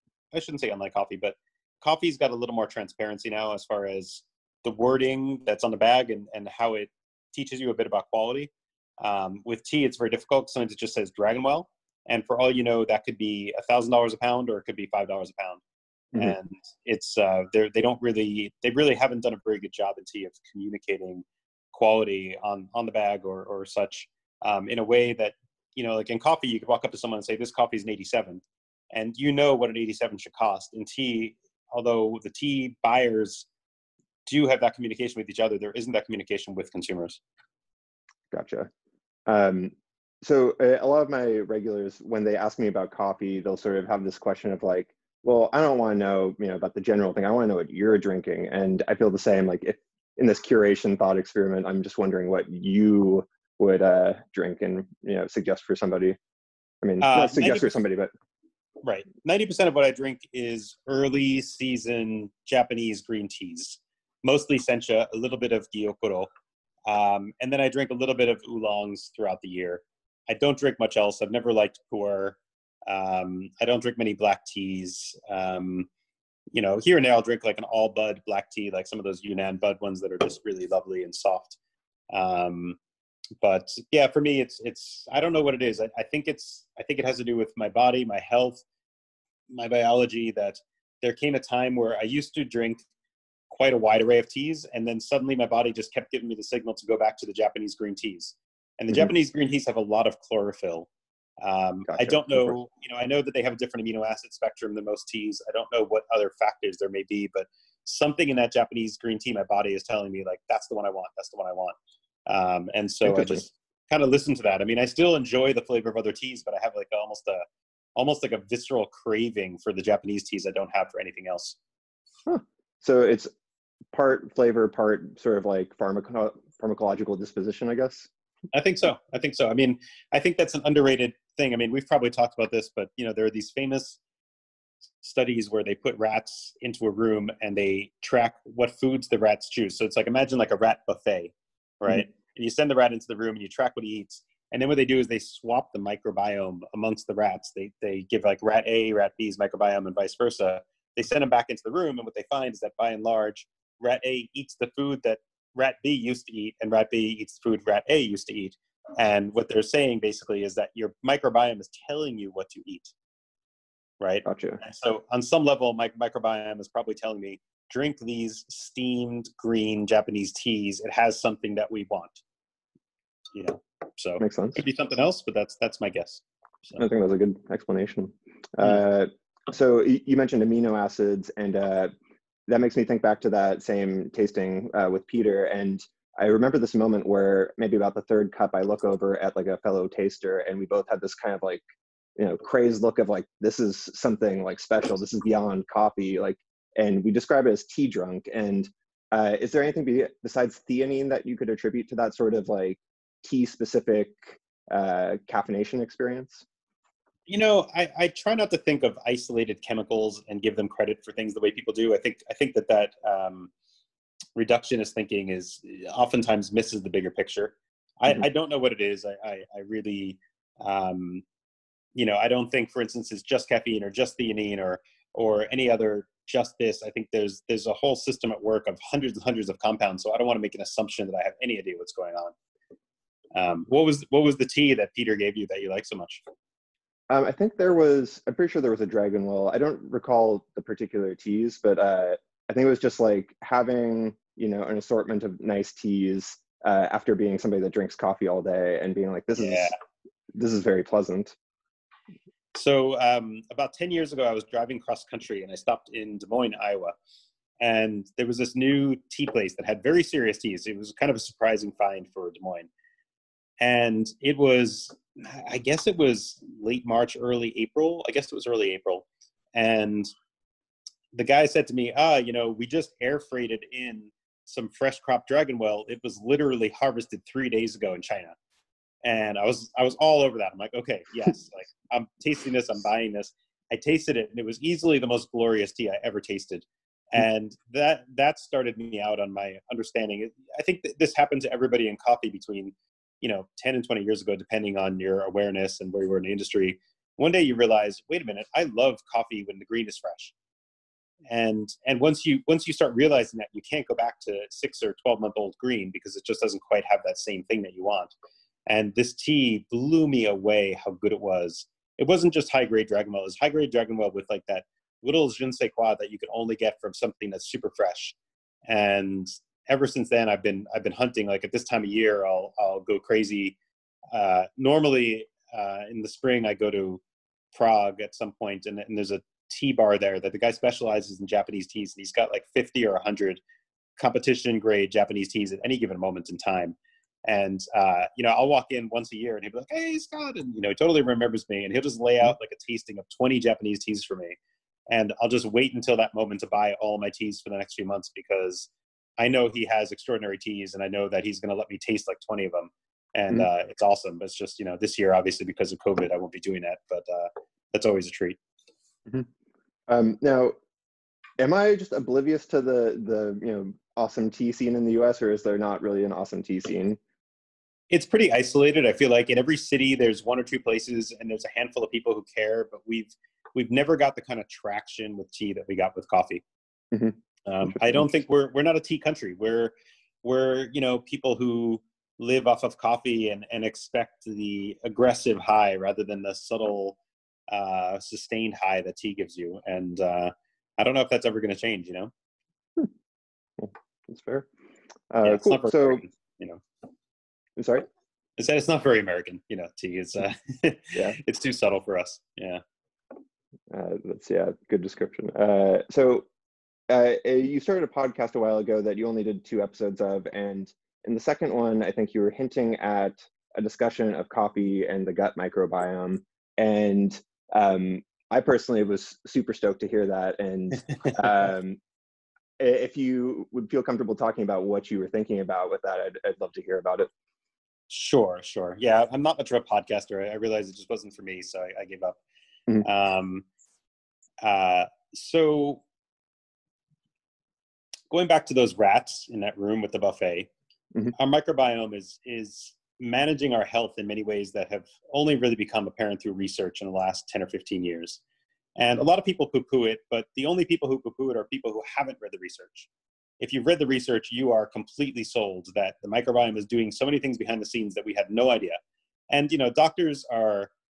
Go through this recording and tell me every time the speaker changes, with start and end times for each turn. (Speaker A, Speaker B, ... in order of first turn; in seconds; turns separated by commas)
Speaker A: 0.3-15.6, Speaker A: 16.2-28.4, Speaker A: 28.9-33.5, Speaker A: 34.3-37.2, Speaker B: 38.3-38.7, Speaker B: 39.3-56.2, Speaker B: 56.8-58.1, Speaker A: 57.0-57.7, Speaker A: 58.8-66.3, Speaker A: 66.9-75.9, Speaker A: 76.5-81.6, Speaker A: 82.1-82.8, Speaker A: 83.4-88.6, Speaker A: 89.5-92.8, Speaker A: 93.5-100.9, Speaker A: 101.4-111.8, Speaker B: 101.9-102.6, Speaker A: 112.3-117.4, Speaker B: 113.0-113.4, Speaker A: 118.0-121.6, Speaker B: 122.3-123.3, Speaker B: 123.9-128.1, Speaker A: 128.5-134.0, Speaker A: 135.0-162.9, Speaker A: 164.0-172.2, Speaker B: 164.2-164.6, Speaker A: 173.3-176.8, Speaker B: 174.2-174.6, Speaker B: 176.8-181.9, Speaker B: 182.5-191.6, Speaker B: 192.2-206.4, Speaker A: 207.3-213.5, Speaker A: 214.4-221.2, Speaker A: 221.9-232.3, Speaker A: 233.3-236.2, Speaker B: 237.1-249.7, Speaker A: 249.4-249.8, Speaker B: 250.3-251.4, Speaker A: 252.6-256.9, Speaker A: 257.6-262.7, Speaker A: 263.6-270.1, Speaker A: 271.1-278.4, Speaker A: 279.0-300.3, Speaker A: 301.3-308.1, Speaker A: 308.7-318.1, Speaker A: 318.7-323.6, Speaker A: 324.1-327.0, Speaker A: 327.5-333.4, Speaker A: 334.0-344.4, Speaker A: 344.9-358.4, Speaker B: 359.9-360.6, Speaker B: 361.4-367.0, Speaker A: 367.9-376.4, Speaker B: 376.9-378.0, Speaker A: 377.5-387.0, Speaker A: 387.5-392.1, Speaker B: 393.6-394.5, Speaker B: 395.1-396.0, Speaker A: 395.2-396.6, Speaker B: 397.6-397.9, Speaker A: 398.4-402.6, Speaker B: 403.7-406.3, Speaker B: 406.9-421.8, Speaker B: 422.6-427.1, Speaker A: 427.9-432.2, Speaker A: 432.8-433.5, Speaker A: 434.4-435.8, Speaker A: 438.1-440.5, Speaker A: 441.2-448.2, Speaker A: 448.8-452.9, Speaker A: 453.4-458.8, Speaker A: 459.3-460.7